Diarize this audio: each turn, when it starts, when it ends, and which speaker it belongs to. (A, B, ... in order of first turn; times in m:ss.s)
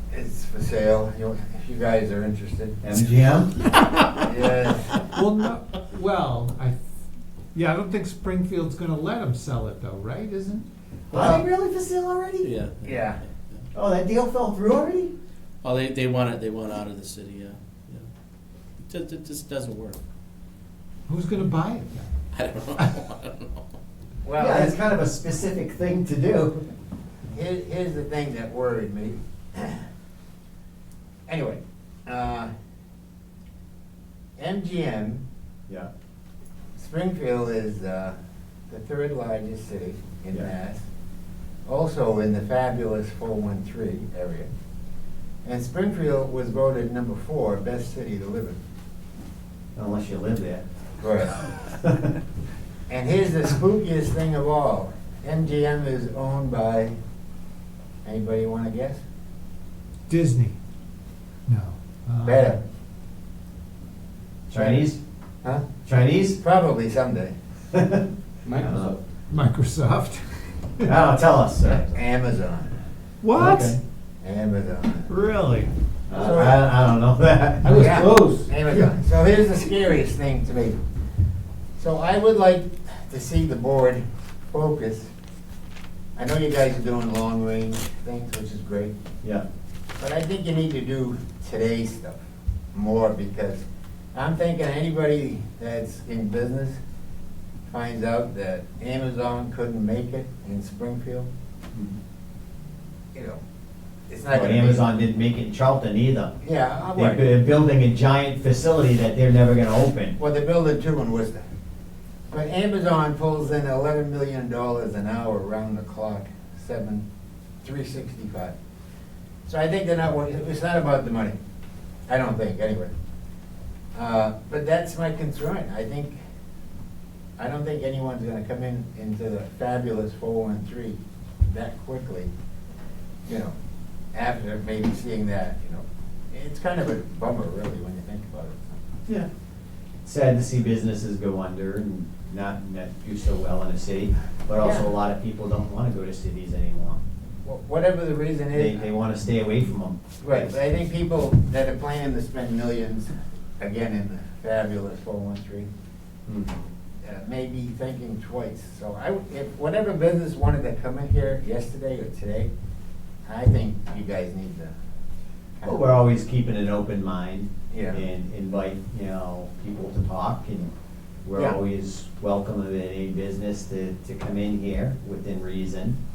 0:00.1-0:02.8 A
0:02.8-0:03.5 B
0:04.2-0:05.1 A
0:05.1-0:06.8 C
0:07.5-0:10.6 C
0:11.1-0:12.5 B
0:11.1-0:11.4 A
0:12.4-0:13.6 D
0:12.8-0:13.2 A
0:13.7-0:15.1 B
0:15.6-0:18.1 D
0:18.8-0:20.0 D
0:21.1-0:22.9 C
0:22.3-0:23.6 D
0:24.2-0:24.8 A
0:24.4-0:26.8 B
0:27.3-0:29.8 A
0:31.3-0:32.5 A
0:34.4-0:35.2 A
0:36.8-0:38.2 A
0:38.7-0:40.8 A
0:41.6-0:44.5 A
0:45.4-0:48.6 A
0:49.7-0:50.6 B
0:51.0-0:51.4 A
0:51.4-0:52.0 B
0:52.9-0:57.0 A
0:58.0-0:59.0 A
1:00.1-1:00.6 C
1:01.5-1:02.6 C
1:02.2-1:02.6 A
1:04.5-1:05.0 B
1:04.5-1:04.9 A
1:05.8-1:06.4 B
1:06.4-1:07.3 A
1:07.7-1:08.0 B
1:08.5-1:09.0 B
1:09.3-1:10.9 C
1:10.8-1:12.0 B
1:11.9-1:12.8 A
1:13.2-1:13.8 C
1:13.3-1:13.8 B
1:14.2-1:15.1 A
1:15.1-1:15.7 C
1:16.1-1:18.0 B
1:16.1-1:16.6 A
1:17.6-1:19.0 C
1:17.6-1:20.8 A
1:21.8-1:25.1 A
1:26.2-1:28.9 A
1:30.0-1:32.2 A
1:32.7-1:36.8 A
1:37.7-1:41.3 A
1:43.1-1:43.4 A
1:44.1-1:44.8 A
1:44.3-1:46.4 B
1:46.4-1:47.2 A
1:46.9-1:50.2 B
1:50.2-1:51.4 A
1:52.3-1:57.0 A
1:57.6-1:58.5 A
1:59.4-2:01.4 A
2:02.1-2:02.9 A
2:03.9-2:06.1 A
2:07.4-2:12.3 A
2:13.2-2:13.5 A
2:14.1-2:18.8 A
2:20.0-2:27.0 B
2:24.6-2:24.9 A
2:27.4-2:28.9 A
2:28.5-2:30.9 B
2:30.2-2:35.7 A
2:36.2-2:36.6 B
2:37.0-2:42.5 A
2:43.2-2:44.7 A
2:45.6-2:45.8 A
2:45.6-2:50.7 B
2:47.7-2:48.0 A
2:51.2-2:56.0 B